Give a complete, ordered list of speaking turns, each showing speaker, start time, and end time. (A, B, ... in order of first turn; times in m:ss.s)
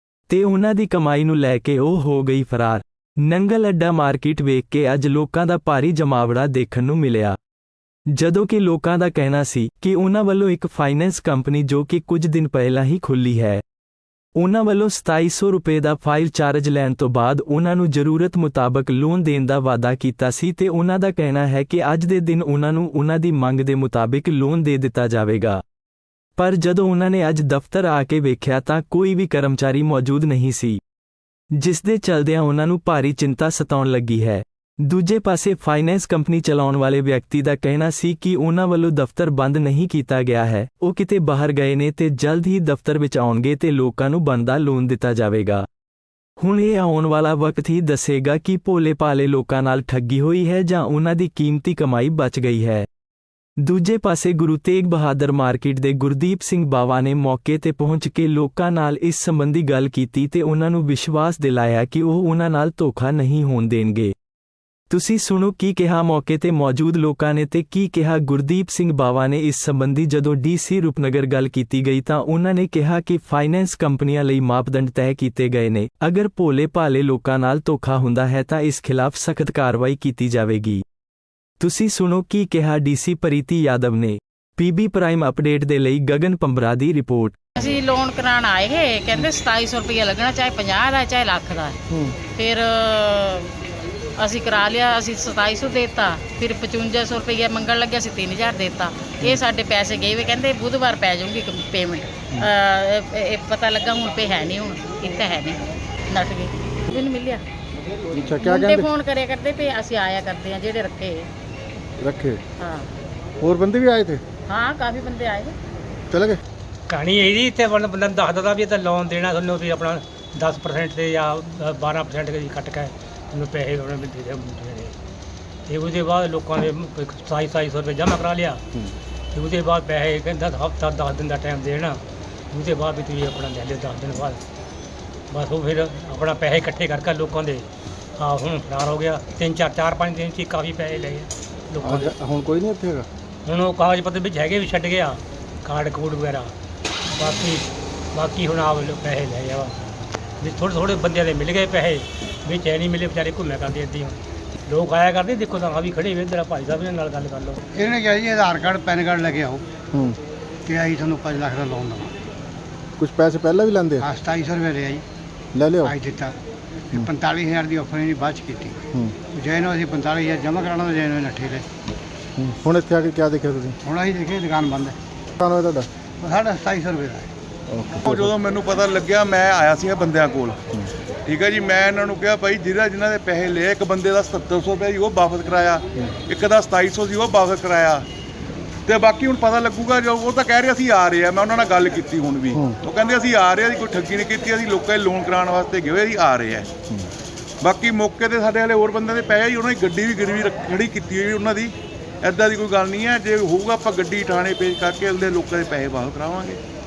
0:00.3-0:07.4 A
0:08.1-0:13.6 A
0:14.4-0:25.6 A
0:26.4-0:30.8 A
0:31.5-0:45.6 A
0:46.4-0:52.9 A
0:53.6-1:04.1 A
1:04.9-1:20.8 A
1:21.6-1:27.4 A
1:27.6-1:31.8 B
1:32.3-1:33.5 B
1:34.2-1:45.6 B
1:46.1-1:47.4 B
1:48.1-1:48.9 C
1:48.4-1:51.2 B
1:52.0-1:52.4 C
1:52.6-1:52.9 B
1:53.4-1:54.2 C
1:54.5-1:55.5 B
1:56.1-1:56.4 C
1:56.9-2:04.9 D
2:05.7-2:08.6 D
2:09.3-2:12.0 D
2:12.5-2:14.4 D
2:15.3-2:17.7 D
2:18.2-2:22.1 D
2:21.8-2:23.0 C
2:23.4-2:26.5 D
2:27.1-2:29.7 D
2:30.4-2:37.6 D
2:37.7-2:39.6 E
2:39.9-2:40.2 C
2:40.6-2:42.1 E
2:43.0-2:44.1 C
2:44.0-2:45.0 E
2:45.5-2:46.0 C
2:45.8-2:46.3 E
2:46.9-2:48.8 E
2:48.9-2:49.2 C
2:49.3-2:51.6 E
2:52.4-2:53.8 C
2:53.8-2:55.0 E
2:55.4-2:55.9 C
2:56.2-2:57.3 E
2:57.7-2:58.3 C
2:58.1-3:00.6 F
3:01.3-3:08.0 F
3:08.9-3:16.7 F
3:12.5-3:12.8 C
3:17.6-3:26.6 F